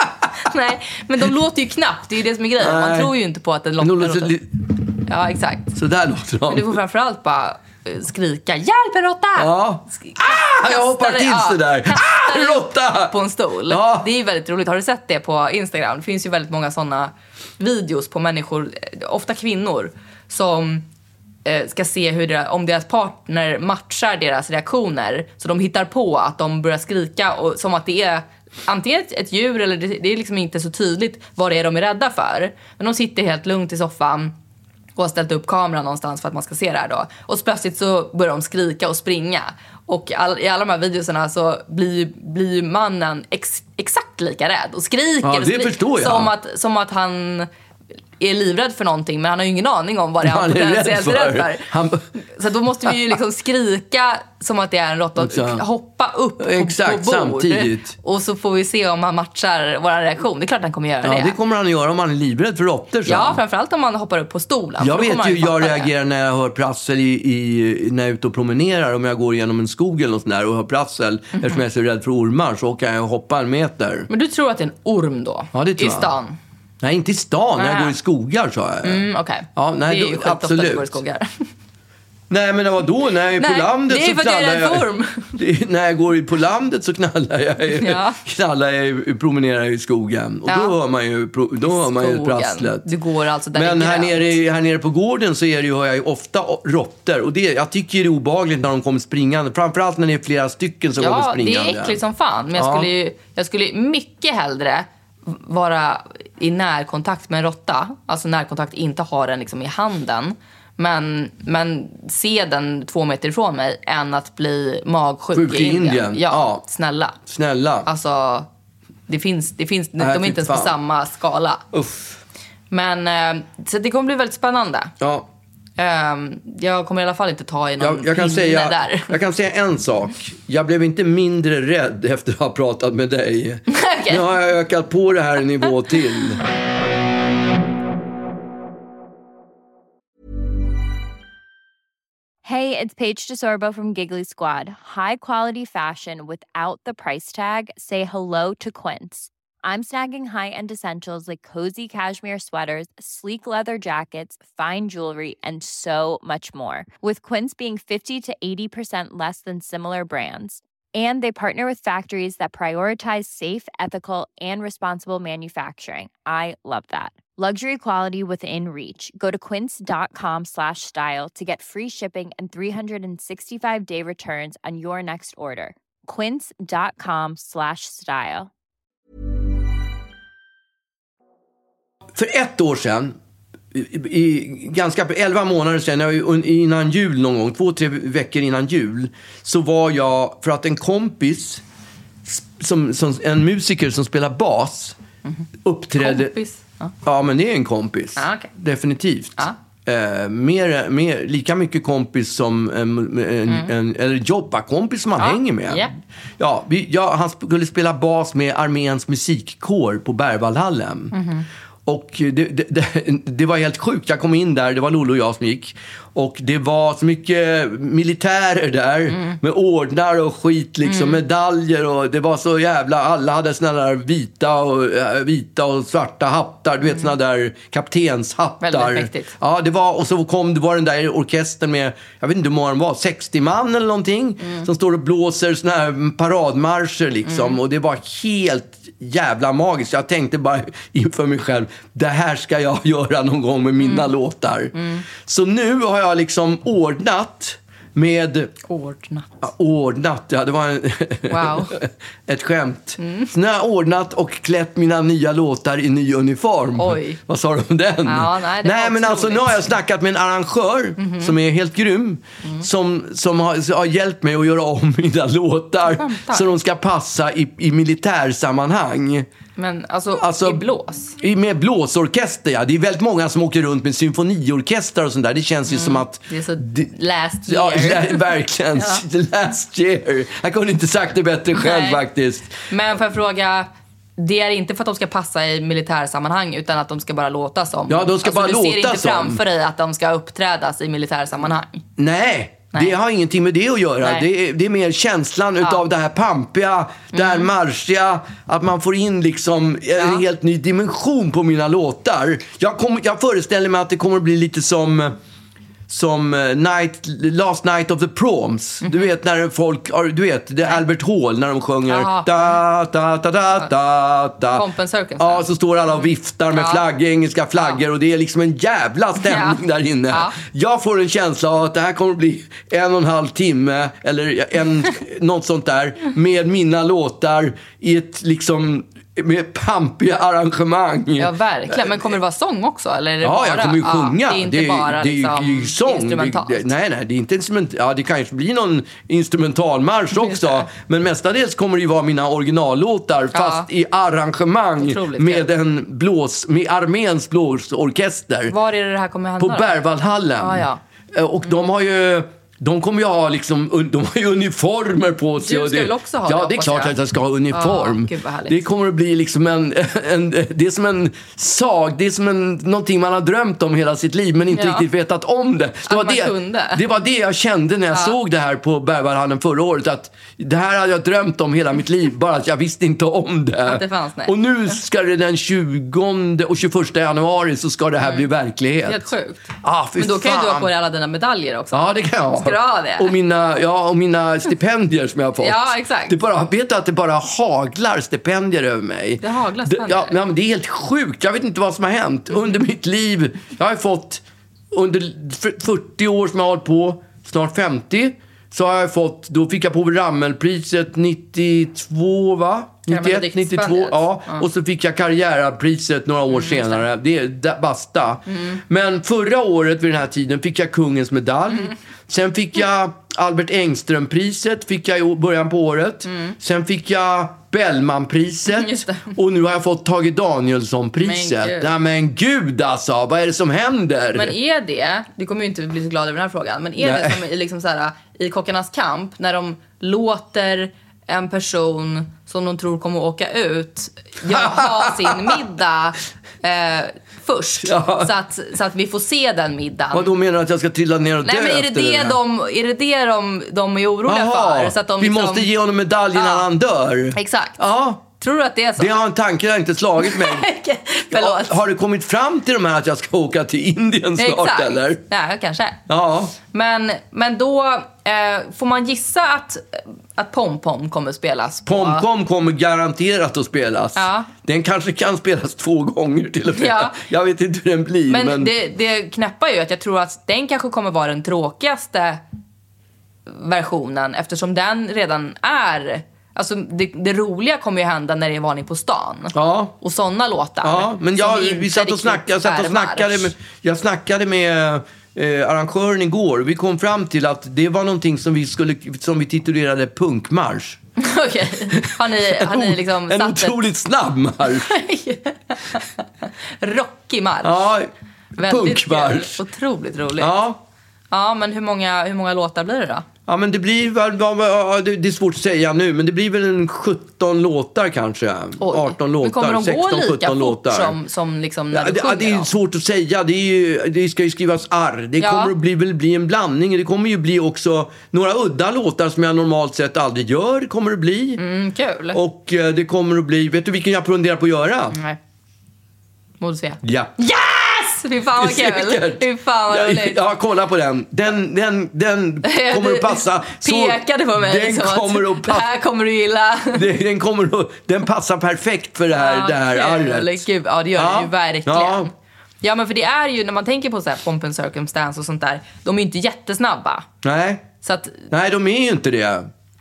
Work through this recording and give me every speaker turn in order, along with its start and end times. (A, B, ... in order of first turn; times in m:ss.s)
0:00.4-0:04.4 A
0:02.6-0:03.1 B
0:03.8-0:04.6 B
0:05.1-0:05.7 A
0:05.7-0:06.8 B
0:06.5-0:20.8 A
0:09.4-0:13.2 B
0:13.7-0:14.1 B
0:21.4-0:34.3 A
0:35.0-0:47.5 A
0:45.2-0:46.3 B
0:48.2-1:01.4 A
0:50.2-0:52.1 B
0:55.2-0:55.6 B
0:56.4-0:58.0 B
1:01.0-1:03.4 B
1:03.1-1:05.9 A
1:04.8-1:14.1 B
1:11.3-1:11.6 A
1:14.1-1:16.4 A
1:15.5-1:16.1 B
1:16.8-1:21.0 B
1:17.6-1:18.0 A
1:18.8-1:21.5 A
1:22.3-1:32.9 B
1:23.4-1:25.3 A
1:27.7-1:28.2 A
1:30.5-1:30.8 A
1:31.6-1:34.4 A
1:33.5-1:42.0 B
1:41.0-1:57.2 A
1:42.6-1:42.9 B
1:55.3-1:56.6 B
1:57.2-1:57.9 B
1:57.9-1:58.5 A
1:59.1-2:01.6 A
2:00.0-2:00.8 B
2:01.7-2:02.2 B
2:02.7-2:04.9 A
2:05.0-2:05.3 B
2:05.8-2:09.2 A
2:07.8-2:16.4 B
2:13.7-2:14.3 A
2:22.4-2:58.5 C
3:02.2-3:03.2 B
3:03.7-3:11.6 B
3:12.2-3:15.0 B
3:15.6-3:16.4 B
3:16.0-3:16.9 A
3:17.0-3:25.9 B
3:18.2-3:18.5 A
3:25.2-3:25.9 A
3:26.4-3:31.2 B
3:31.1-3:31.5 A
3:31.9-4:08.6 B
3:39.1-3:39.4 A
3:40.8-3:41.2 A
3:48.6-3:49.3 A
3:54.4-3:54.7 A
3:57.3-3:57.6 A
4:03.8-4:04.1 A
4:04.8-4:05.1 A
4:08.7-4:09.4 A
4:09.4-4:29.3 B
4:11.3-4:11.8 A
4:13.0-4:13.3 A
4:16.8-4:17.2 A
4:18.1-4:19.6 A
4:21.0-4:21.3 A
4:25.9-4:26.5 A
4:29.6-4:31.2 A
4:30.2-4:30.6 B
4:31.2-4:36.9 B
4:35.7-4:39.0 A
4:37.5-4:42.6 B
4:41.6-4:42.0 A
4:42.7-4:51.8 A
4:47.9-4:49.4 B
4:52.0-5:05.2 B
4:57.1-4:57.5 A
5:00.0-5:00.2 A
5:05.9-5:14.7 B
5:08.8-5:09.1 A
5:11.9-5:12.6 A
5:14.5-5:15.5 A
5:15.2-5:32.1 B
5:16.5-5:16.8 A
5:19.2-5:20.4 A
5:31.2-5:36.7 A
5:33.2-5:48.6 B
5:40.1-5:40.7 A
5:43.3-5:43.7 A
5:44.8-5:45.5 A
5:48.5-5:49.8 A
5:49.4-6:19.0 B
5:50.4-5:50.8 A
5:55.4-5:57.0 A
5:57.5-5:58.6 A
6:04.5-6:04.9 A
6:05.9-6:06.8 A
6:13.6-6:14.4 A
6:18.0-6:18.3 A
6:18.9-6:23.1 A
6:19.6-6:20.7 B
6:21.7-7:04.4 B
6:25.4-6:26.2 A
6:29.2-6:30.1 A
6:42.9-6:44.4 A
6:46.3-6:46.8 A
6:48.3-6:48.6 A
6:56.1-6:56.4 A
6:58.5-6:59.1 A
7:01.0-7:01.7 A
7:04.1-7:20.1 A
7:06.8-7:07.2 B
7:14.2-7:15.4 B
7:17.6-7:18.1 B
7:19.9-7:22.2 B
7:21.2-7:25.5 A
7:24.1-7:28.0 B
7:26.1-7:26.5 A
7:27.1-7:27.6 A
7:28.2-7:29.0 A
7:28.8-7:30.5 B
7:30.0-7:31.6 A
7:31.1-7:35.0 B
7:34.2-7:35.8 A
7:35.9-7:36.4 B
7:36.4-7:42.0 A
7:41.7-7:48.5 B
7:44.0-7:44.3 A
7:46.5-7:47.0 A
7:48.1-7:52.2 A
7:53.3-8:03.3 A
7:59.3-7:59.7 B
8:00.6-8:10.8 B
8:11.0-8:13.6 A
8:11.7-8:14.7 B
8:14.5-8:17.7 A
8:17.4-8:19.4 B
8:18.4-8:20.4 A
8:20.2-8:20.6 B
8:21.1-8:23.1 A
8:23.3-8:31.0 B
8:28.6-8:32.5 A
8:31.7-8:41.4 B
8:35.2-8:35.5 A
8:41.4-8:42.2 A
8:42.1-8:45.0 B
8:44.9-8:45.2 A
8:46.4-8:50.2 A
8:46.8-8:47.2 B
8:48.4-8:55.7 B
8:52.4-8:56.8 A
8:56.7-9:02.1 B
8:59.2-9:02.1 A
9:02.6-9:07.1 A
9:07.2-9:07.7 B
9:07.8-9:08.3 A
9:08.3-9:09.5 B